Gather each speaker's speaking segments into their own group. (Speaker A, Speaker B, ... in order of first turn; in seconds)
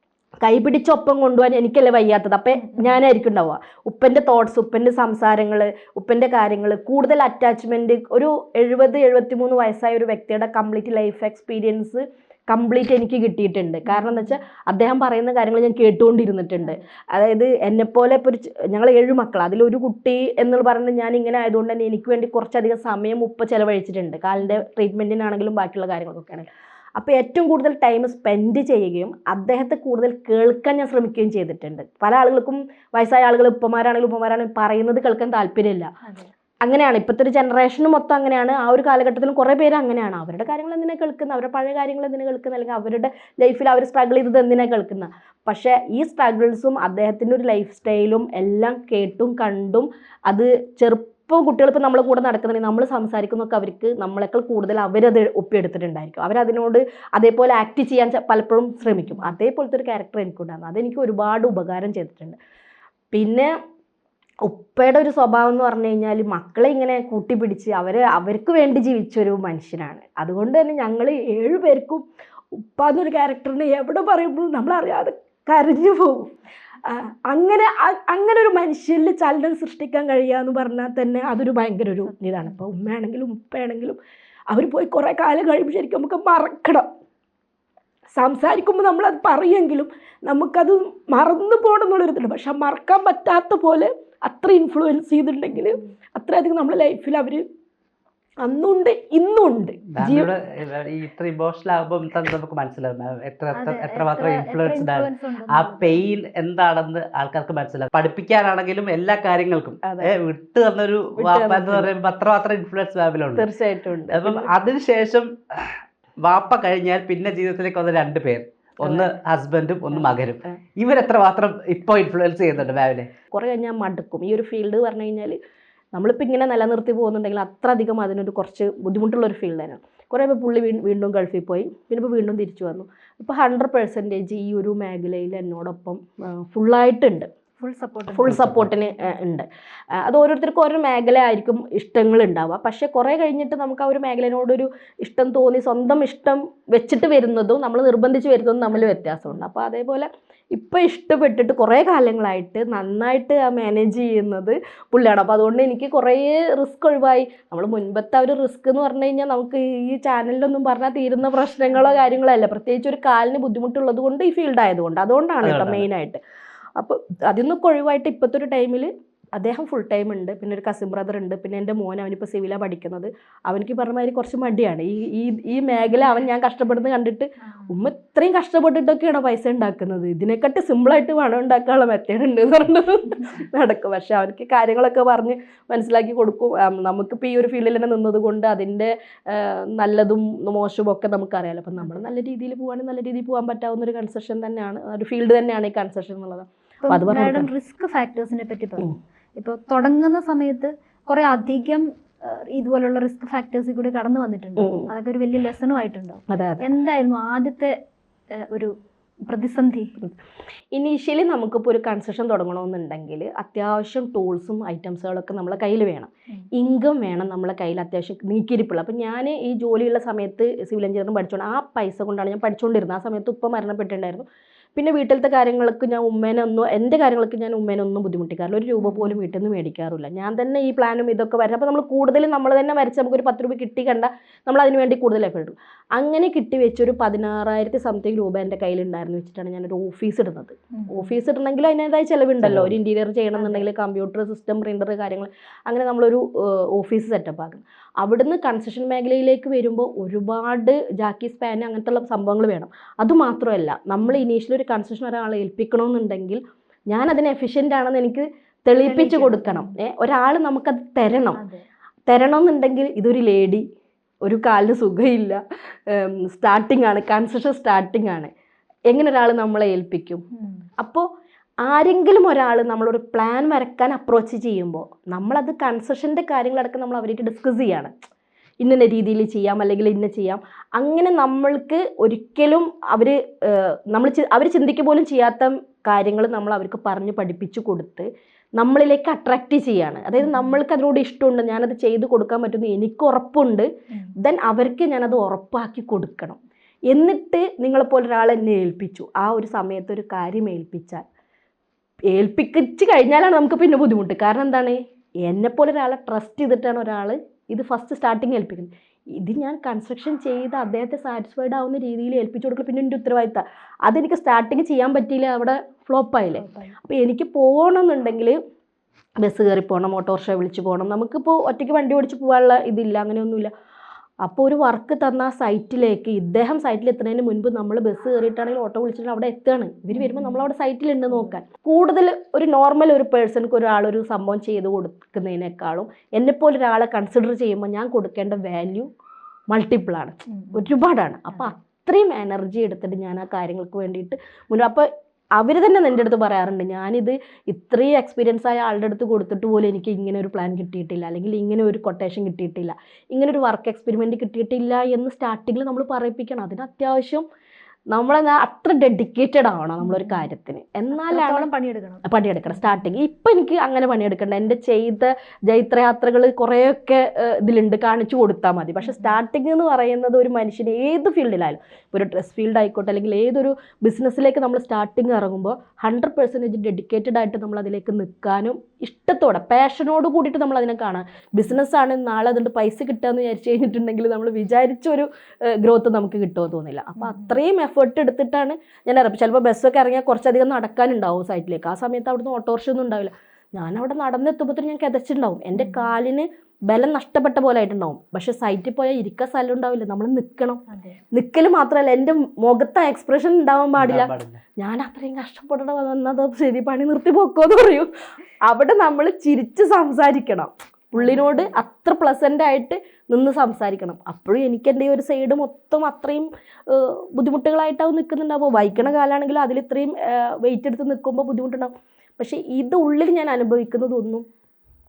Speaker A: 0.4-35.9, 36.6-62.4, 63.1-63.5, 64.5-76.3, 76.8-84.0, 84.5-86.9, 88.1-97.5, 98.4-100.3, 109.8-110.1, 111.2-111.9, 113.4-114.5, 119.9-120.6, 123.3-125.4, 125.9-137.3, 138.1-166.2, 166.8-197.5, 204.6-204.9, 206.3-206.7, 210.7-261.4, 262.1-263.7, 264.2-268.3, 268.9-270.2, 270.8-271.1, 271.6-277.9, 278.6-293.7, 294.2-301.0, 302.1-318.4, 319.2-323.5, 324.2-338.9, 339.5-357.3, 357.9-361.5, 362.0-407.9, 408.4-424.2
Speaker B: 13.9-14.3, 36.0-36.3, 58.9-59.4, 103.5-106.0, 137.6-139.2, 148.7-149.4, 177.5-177.8, 196.8-207.8, 208.3-208.7, 209.2-209.9, 228.8-229.2, 240.8-241.2, 243.3-243.7, 258.8-259.8, 261.4-261.6, 270.4-270.7, 290.2-290.6, 316.4-316.7, 329.9-330.4, 340.3-340.6, 359.8-360.3, 360.9-362.9, 368.9-369.2, 387.0-387.4, 395.6-395.9, 400.7-401.0, 411.0-411.5, 418.6-418.9
Speaker C: 99.9-113.5, 114.1-123.1, 138.2-138.7, 165.4-165.9, 242.4-242.8, 403.8-404.4